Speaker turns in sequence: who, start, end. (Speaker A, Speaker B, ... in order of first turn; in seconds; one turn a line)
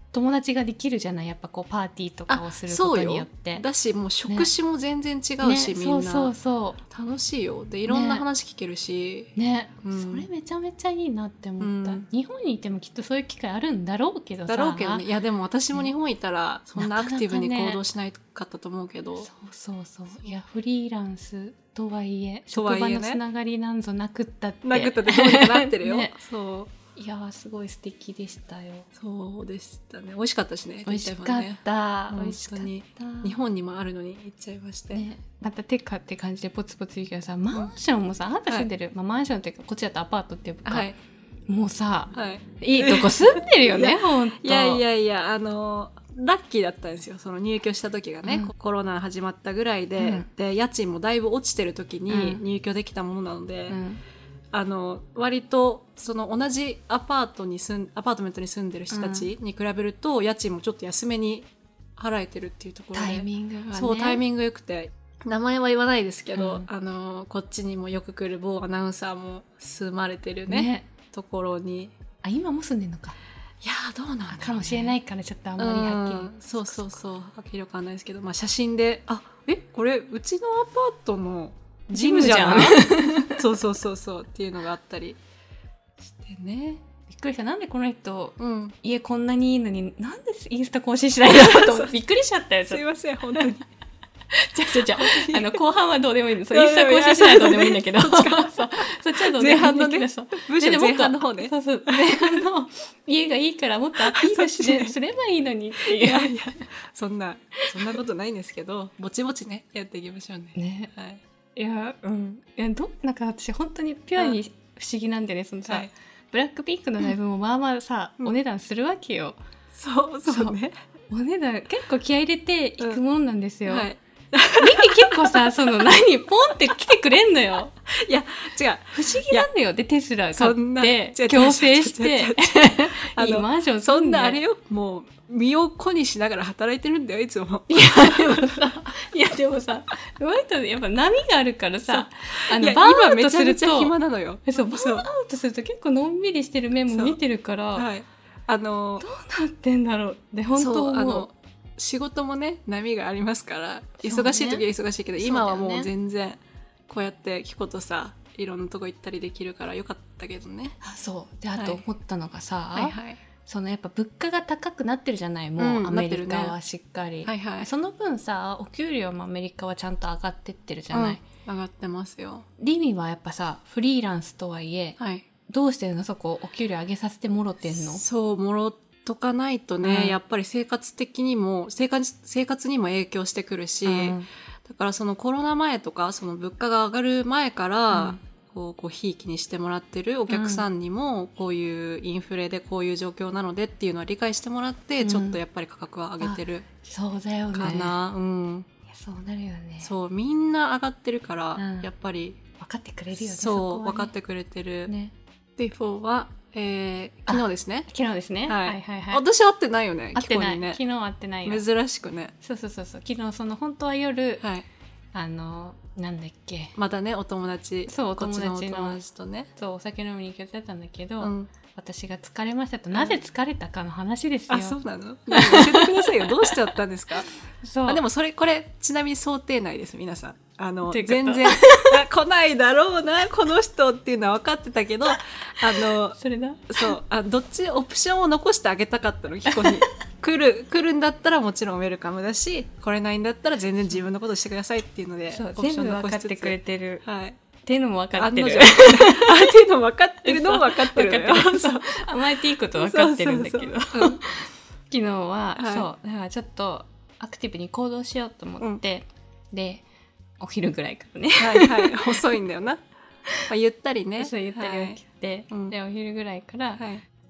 Speaker A: 0.1-3.6
Speaker B: 2.3-6.3
Speaker A: 5.4-6.8
Speaker B: 6.9-10.3
Speaker A: 7.9-8.2
Speaker A: 9.3-15.0
Speaker B: 11.6-12.0
Speaker B: 14.5-19.3
Speaker A: 16.8-17.8
Speaker A: 19.2-26.1
Speaker B: 22.5-23.2
Speaker B: 24.6-26.7
Speaker A: 26.9-28.9
Speaker B: 28.9-35.0
Speaker A: 30.9-33.4
Speaker A: 34.9-40.9
Speaker B: 40.6-41.0
Speaker A: 41.5-44.8
Speaker B: 42.1-53.8
Speaker A: 48.2-48.5
Speaker A: 50.0-50.3
Speaker A: 52.1-52.4
Speaker A: 53.7-54.0
Speaker B: 54.5-71.9
Speaker A: 58.9-59.3
Speaker A: 62.9-64.2
Speaker A: 66.3-66.7
Speaker A: 70.5-70.9
Speaker A: 72.2-73.2
Speaker B: 73.6-75.0
Speaker A: 74.3-77.0
Speaker B: 75.6-85.2
Speaker A: 81.9-83.4
Speaker B: 86.0-86.8
Speaker A: 87.1-93.5
Speaker B: 88.4-88.8
Speaker B: 91.2-92.0
Speaker B: 92.7-93.7
Speaker A: 94.3-106.6
Speaker B: 94.7-95.6
Speaker B: 96.5-102.5
Speaker B: 104.0-105.0
Speaker B: 105.8-111.2
Speaker A: 107.6-107.9
Speaker A: 110.5-110.9
Speaker A: 111.5-119.4
Speaker B: 119.7-120.7
Speaker A: 120.3-120.5
Speaker A: 121.1-123.9
Speaker B: 123.7-126.0
Speaker A: 124.6-127.7
Speaker B: 127.9-129.5
Speaker A: 128.9-134.4
Speaker B: 130.3-138.7
Speaker A: 137.7-143.9
Speaker B: 141.9-145.1
Speaker A: 144.4-147.9
Speaker B: 146.9-147.2
Speaker B: 147.7-149.1
Speaker A: 149.0-151.3
Speaker B: 150.6-160.8
Speaker A: 154.0-154.6
Speaker A: 155.2-155.9
Speaker A: 160.8-171.2
Speaker B: 161.5-161.8
Speaker B: 162.7-163.2
Speaker B: 165.6-166.5
Speaker B: 167.2-167.7
Speaker B: 170.9-172.4
Speaker A: 172.6-178.0
Speaker B: 175.0-175.2
Speaker B: 177.7-196.6
Speaker A: 179.8-180.2
Speaker A: 183.8-184.3
Speaker A: 187.9-188.2
Speaker A: 190.3-190.7
Speaker A: 195.0-195.4
Speaker A: 196.2-197.9
Speaker B: 197.5-198.7
Speaker A: 198.9-199.9
Speaker B: 199.8-202.4
Speaker A: 201.6-201.9
Speaker A: 202.6-204.1
Speaker B: 203.1-204.9
Speaker A: 204.9-205.1
Speaker B: 205.6-207.9
Speaker A: 207.3-209.2
Speaker B: 208.4-210.8
Speaker A: 210.1-211.6
Speaker B: 211.4-212.3
Speaker A: 212.4-214.4
Speaker B: 214.4-214.7
Speaker A: 215.1-216.7
Speaker B: 216.8-219.5
Speaker A: 217.9-219.0
Speaker A: 219.6-224.8
Speaker B: 221.2-221.5
Speaker B: 224.5-227.3
Speaker A: 225.3-226.5
Speaker A: 227.6-228.0
Speaker B: 227.8-236.2
Speaker A: 230.9-232.0
Speaker A: 235.8-236.9
Speaker B: 236.7-247.3
Speaker A: 239.5-239.8
Speaker A: 245.3-247.0
Speaker A: 247.7-249.5
Speaker B: 248.1-254.2
Speaker A: 250.2-259.8
Speaker B: 255.6-255.9
Speaker A: 260.4-262.2
Speaker B: 261.4-262.8
Speaker B: 263.5-265.0
Speaker A: 264.2-266.8
Speaker B: 266.8-267.0